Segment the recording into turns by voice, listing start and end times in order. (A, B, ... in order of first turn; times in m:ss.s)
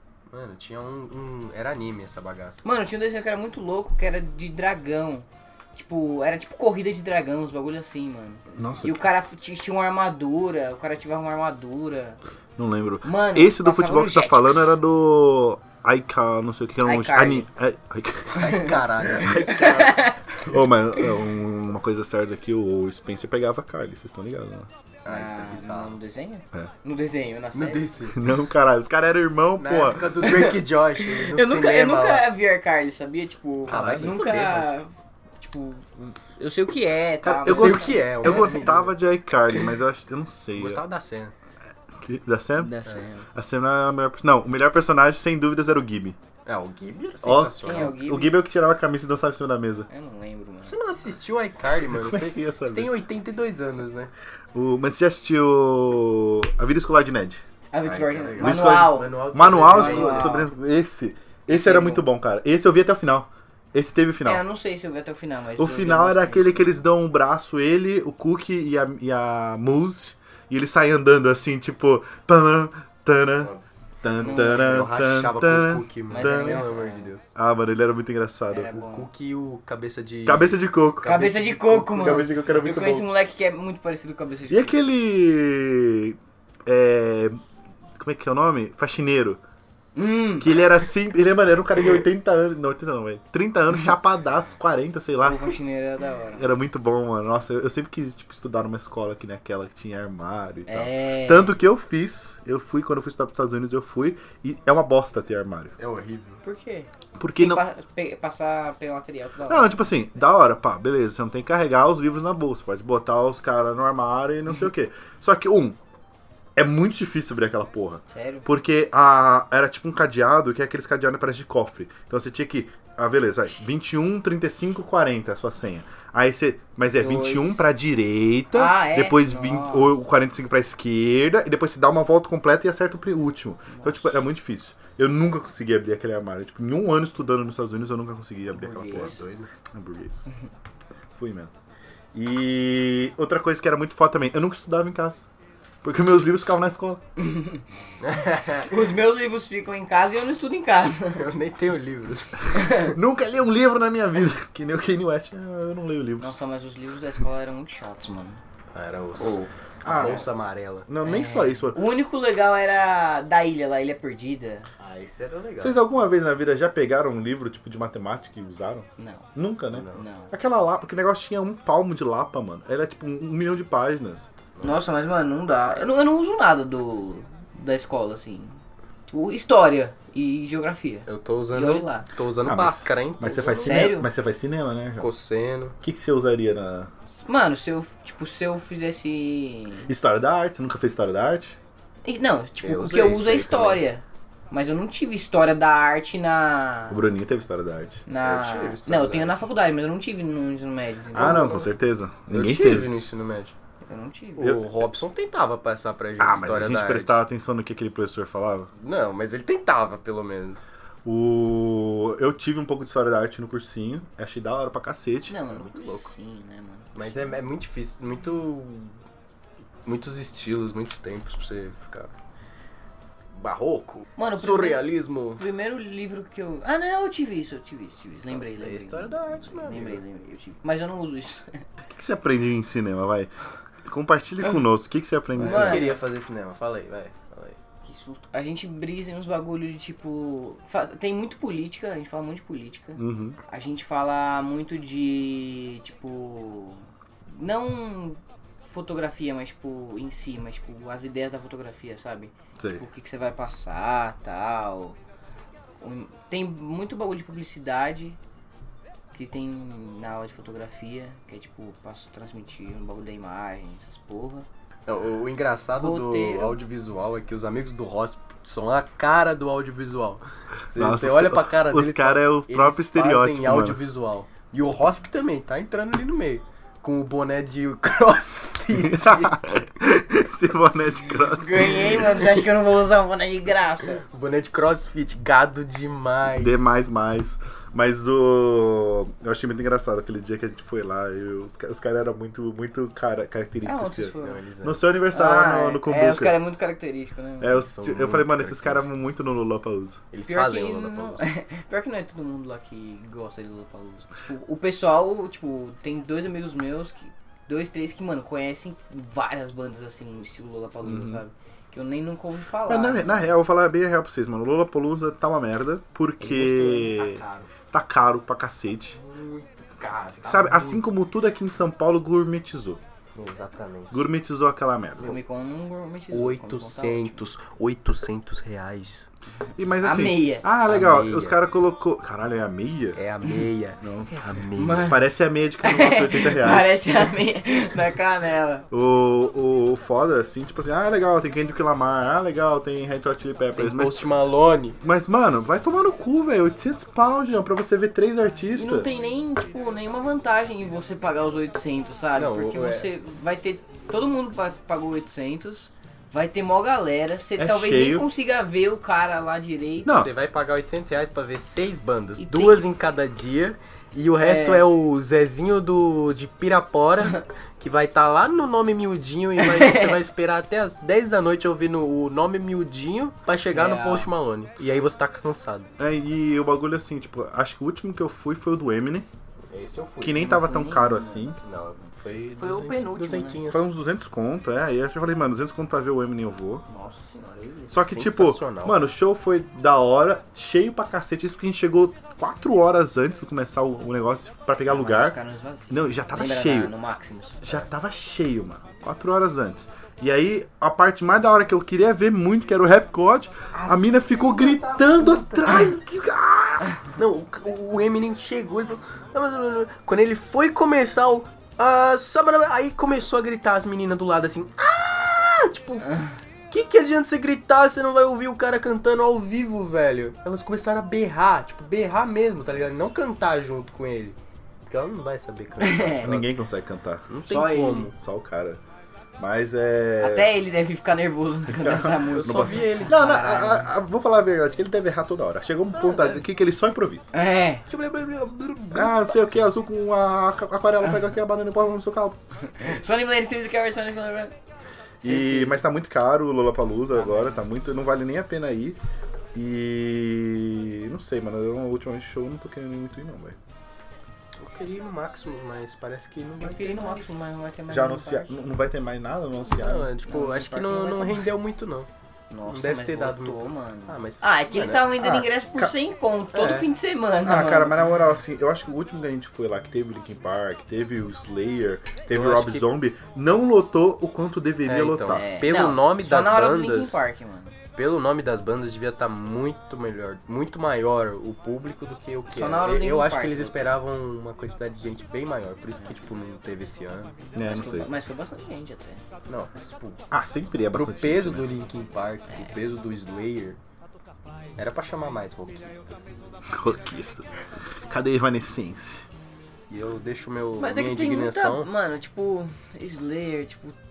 0:00.3-0:02.6 A
0:02.6-0:12.2 B
0:08.6-0:09.0 C
0:12.6-0:19.4 C
0:13.0-0:14.8 B
0:16.8-0:17.5 B
0:18.3-0:20.2 A
0:18.4-0:18.7 B
0:19.4-0:20.2 B
0:20.4-0:24.7 C
0:25.0-0:26.0 A
0:25.1-0:27.9 B
0:27.5-0:28.2 A
0:28.1-0:30.2 C
0:29.6-0:32.3 A
0:30.2-0:38.7 B
0:33.7-0:34.8 A
0:33.7-0:34.1 C
0:37.2-0:40.8 C
0:37.4-0:38.9 A
0:40.6-0:41.3 A
0:42.0-0:42.8 C
0:42.6-0:43.3 B
0:43.3-0:46.2 C
0:46.5-0:47.9 A
0:47.2-0:49.9 C
0:47.6-0:48.4 B
0:49.9-0:50.8 B
0:50.6-0:54.1 A
0:51.9-0:52.9 C
0:54.5-0:57.4 C
0:57.7-1:00.5 B
0:57.9-1:00.5 A
0:58.4-1:04.4 C
1:01.5-1:02.1 B
1:04.2-1:06.8 B
1:05.6-1:16.6 C
1:13.4-1:13.7 A
1:14.2-1:14.8 B
1:14.2-1:17.2 A
1:16.1-1:17.1 B
1:17.4-1:18.7 C
1:18.5-1:19.1 B
1:18.7-1:21.9 A
1:20.3-1:23.1 C
1:21.0-1:24.7 B
1:24.5-1:27.4 C
1:28.0-1:29.4 C
1:30.0-1:30.6 B
1:30.4-1:35.6 C
1:35.2-1:36.5 B
1:36.4-1:45.8 C
1:40.7-1:41.6 B
1:45.8-1:46.4 A
1:46.4-1:49.8 B
1:47.2-1:47.6 C
1:49.5-1:55.8 C
1:56.6-2:19.2 C
1:58.1-1:58.5 B
2:07.0-2:07.7 B
2:08.5-2:10.0 B
2:13.7-2:14.2 B
2:18.5-2:19.5 A
2:18.7-2:19.2 B
2:19.7-2:20.2 C
2:21.2-2:21.5 C
2:22.1-2:25.3 C
2:25.8-2:27.0 C
2:27.2-2:27.6 B
2:28.0-2:28.7 A
2:28.6-2:31.2 B
2:31.2-2:32.6 A
2:32.5-2:32.9 B
2:32.8-2:36.4 C
2:36.2-2:38.4 B
2:38.7-2:40.9 A
2:39.2-2:40.2 B
2:39.8-2:40.2 C
2:40.9-2:41.8 C
2:41.0-2:44.7 B
2:44.8-2:45.9 A
2:45.6-2:54.3 C
2:49.0-2:49.3 B
2:49.7-2:50.0 A
2:49.9-2:50.3 B
2:54.6-2:58.6 B
2:59.1-3:02.1 B
3:01.1-3:03.9 A
3:02.4-3:05.1 C
3:03.6-3:04.1 B
3:05.0-3:05.8 A
3:05.8-3:06.9 C
3:07.3-3:09.9 B
3:09.9-3:11.6 C
3:12.0-3:17.0 B
3:12.6-3:13.8 A
3:16.9-3:18.0 C
3:18.1-3:21.7 B
3:18.2-3:19.4 A
3:21.1-3:22.9 C
3:21.2-3:21.6 A
3:22.3-3:23.6 A
3:23.9-3:24.6 B
3:24.4-3:27.2 A
3:26.2-3:28.7 C
3:28.8-3:30.7 A
3:31.0-3:35.4 C
3:35.3-3:37.3 B
3:35.5-3:36.1 A
3:37.0-3:38.9 A
3:39.8-3:42.1 A
3:43.4-3:45.4 A
3:44.2-3:51.6 B
3:48.3-3:50.0 A
3:51.9-3:53.3 C
3:53.8-3:55.9 C
3:55.4-3:56.0 B
3:55.4-3:57.6 A
3:57.9-4:15.0 B
4:03.0-4:03.4 C
4:15.8-4:18.2 B
4:19.1-4:24.5 B
4:24.9-4:39.4 A
4:25.8-4:26.6 B
4:30.8-4:33.8 C
4:38.8-4:42.3 C
4:41.3-4:44.0 B
4:44.0-4:46.7 A
4:46.4-4:56.4 C
4:53.6-4:54.4 B
4:54.2-4:54.8 A
4:55.1-4:57.6 B
4:57.4-5:00.0 C
4:57.6-4:58.9 A
5:00.1-5:01.3 A
5:00.3-5:13.3 B
5:10.8-5:11.2 C
5:12.7-5:19.0 C
5:16.2-5:17.0 B
5:16.8-5:17.5 A
5:18.9-5:20.9 A
5:20.2-5:22.8 C
5:23.2-5:24.0 A
5:23.9-5:25.2 C
5:25.0-5:27.2 B
5:26.1-5:29.1 A
5:29.6-5:33.0 C
5:29.8-5:30.5 B
5:30.7-5:31.4 A
5:33.0-5:35.0 A
5:33.8-5:36.7 C
5:34.6-5:35.0 B
5:35.6-5:38.7 B
5:38.7-5:44.1 C
5:43.6-5:44.8 A
5:44.8-5:48.9 C
5:48.6-6:00.0 B
5:52.2-5:52.9 A
5:57.4-5:58.1 C
5:59.8-6:00.1 C
5:59.9-6:15.7 A
6:02.2-6:02.6 B
6:04.2-6:04.6 B
6:09.4-6:09.9 B
6:13.5-6:14.1 B
6:15.8-6:19.1 C
6:19.5-6:20.3 A
6:20.0-6:21.4 C
6:20.2-6:21.4 B
6:21.4-6:23.6 A
6:22.4-6:23.4 B
6:23.5-6:26.6 C
6:26.7-6:27.8 B
6:27.7-6:35.2 C
6:27.8-6:28.8 A
6:34.7-6:37.6 B
6:35.7-6:36.7 C
6:37.4-6:46.7 C
6:43.5-6:45.7 A
6:47.0-6:55.9 A
6:56.5-7:06.3 A
7:05.6-7:06.1 B
7:06.0-7:07.1 C
7:07.1-7:08.0 A
7:07.2-7:07.9 B
7:08.0-7:08.6 C
7:09.2-7:10.3 C
7:10.0-7:13.7 B
7:11.5-7:17.1 C
7:12.1-7:13.4 A
7:15.7-7:16.2 A
7:17.1-7:17.6 B
7:17.7-7:19.2 A
7:18.7-7:22.2 C
7:22.5-7:24.4 B
7:25.0-7:25.6 B
7:25.0-7:28.8 C
7:26.9-7:27.4 B
7:29.3-7:33.4 C
7:34.4-7:37.1 A
7:36.4-7:38.4 B
7:37.7-7:39.9 C
7:39.5-7:41.9 A
7:40.1-7:41.3 B
7:42.3-7:47.8 B
7:42.5-7:44.9 A
7:45.0-7:45.7 C
7:46.3-7:46.7 A
7:47.2-7:55.3 C
7:52.1-7:52.7 A
7:54.7-7:57.0 A
7:55.1-7:57.6 B
7:57.8-8:07.2 A
8:02.3-8:03.8 B
8:07.4-8:07.9 C
8:07.4-8:09.0 B
8:09.3-8:10.0 A
8:10.1-8:11.5 C
8:10.7-8:13.6 A
8:14.6-8:16.1 A
8:16.5-8:17.3 C
8:17.9-8:19.1 C
8:19.7-8:21.7 A
8:20.6-8:23.8 B